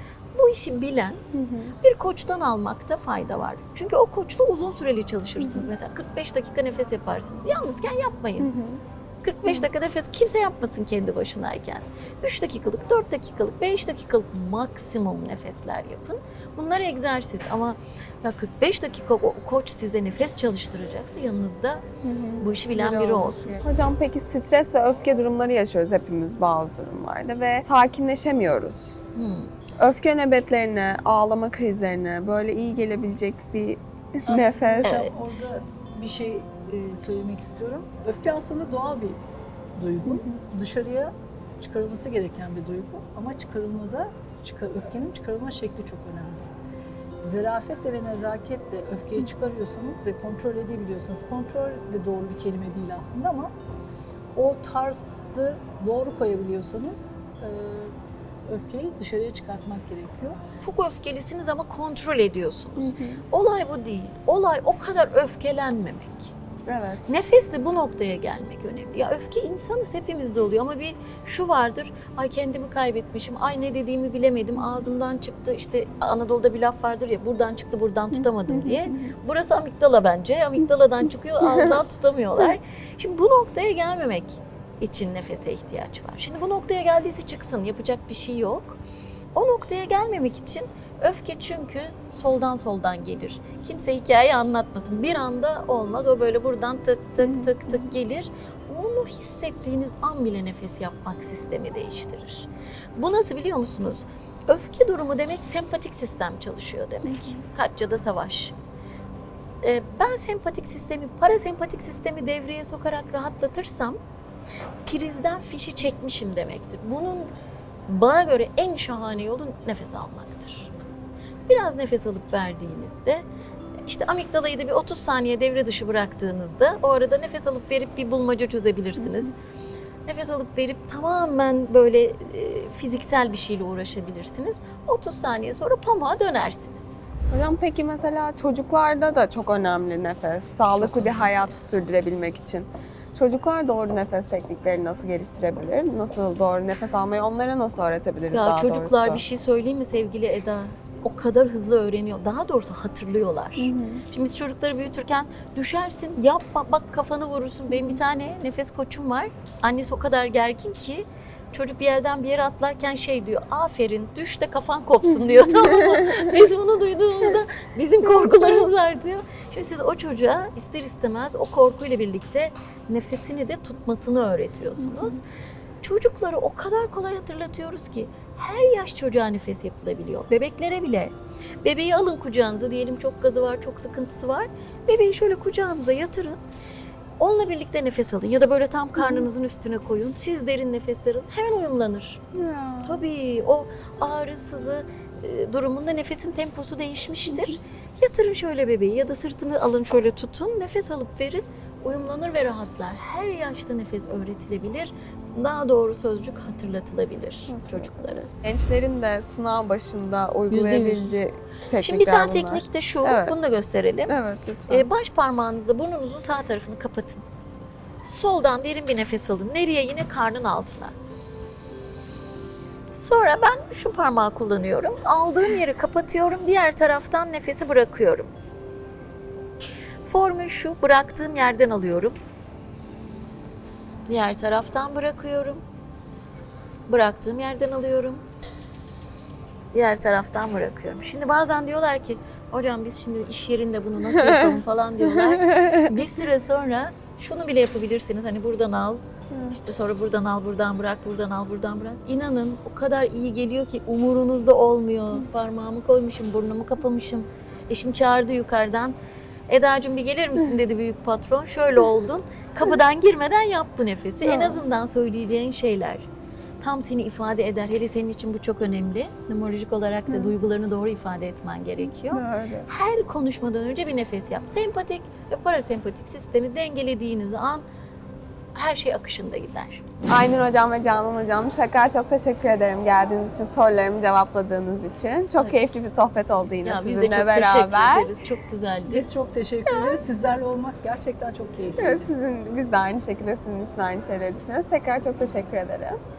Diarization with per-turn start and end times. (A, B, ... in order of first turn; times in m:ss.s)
0:00.3-0:01.3 A
0:01.3-0:01.8 B
0:01.8-0:08.5 A
0:05.4-0:05.7 B
0:08.4-0:08.8 B
0:09.2-0:21.8 A
0:22.0-0:28.9 B
0:22.4-0:23.6 A
0:29.2-0:29.5 A
0:29.8-0:35.1 B
0:34.3-0:39.2 C
0:34.8-0:35.5 A
0:39.8-0:46.4 C
0:40.0-0:40.3 B
0:47.2-0:53.5 C
0:54.4-0:57.9 C
0:58.5-1:00.4 C
1:00.6-1:06.3 A
1:02.8-1:03.2 B
1:06.7-1:07.1 B
1:07.1-1:28.8 A
1:18.1-1:19.1 B
1:21.4-1:21.8 B
1:29.4-1:48.5 A
1:37.2-1:37.9 B
1:47.0-1:47.4 B
1:49.6-1:54.0 A
1:54.8-1:57.3 A
1:57.9-2:00.7 A
2:01.5-2:03.2 A
2:03.9-2:09.4 A
2:09.0-2:09.3 B
2:10.1-2:17.0 A
2:17.3-2:29.2 B
2:20.8-2:21.3 A
2:28.3-2:55.2 A
2:33.6-2:34.0 B
2:37.7-2:38.0 B
2:45.7-2:46.3 B
2:54.8-2:55.2 B
2:55.8-3:06.4 A
3:07.2-3:12.2 A
3:09.0-3:09.3 B
3:12.3-3:13.0 B
3:12.8-3:28.2 A
3:17.3-3:17.6 B
3:27.5-3:33.4 B
3:30.5-3:31.2 A
3:31.8-3:34.1 A
3:34.1-3:34.9 B
3:34.7-3:37.2 A
3:38.0-3:41.0 A
3:42.9-3:48.3 A
3:50.0-3:52.2 A
3:54.1-3:55.6 A
3:56.9-3:58.2 A
3:59.7-4:19.0 A
4:04.2-4:04.6 B
4:05.3-4:06.0 B
4:09.3-4:09.6 B
4:19.5-4:26.1 A
4:24.2-4:24.6 B
4:26.6-4:37.6 A
4:30.1-4:30.3 B
4:32.0-4:32.7 B
4:38.5-4:39.8 A
4:40.1-4:48.1 B
4:45.4-4:45.7 A
4:46.6-4:49.1 A
4:48.9-4:52.1 C
4:49.7-4:50.0 B
4:51.8-4:56.0 B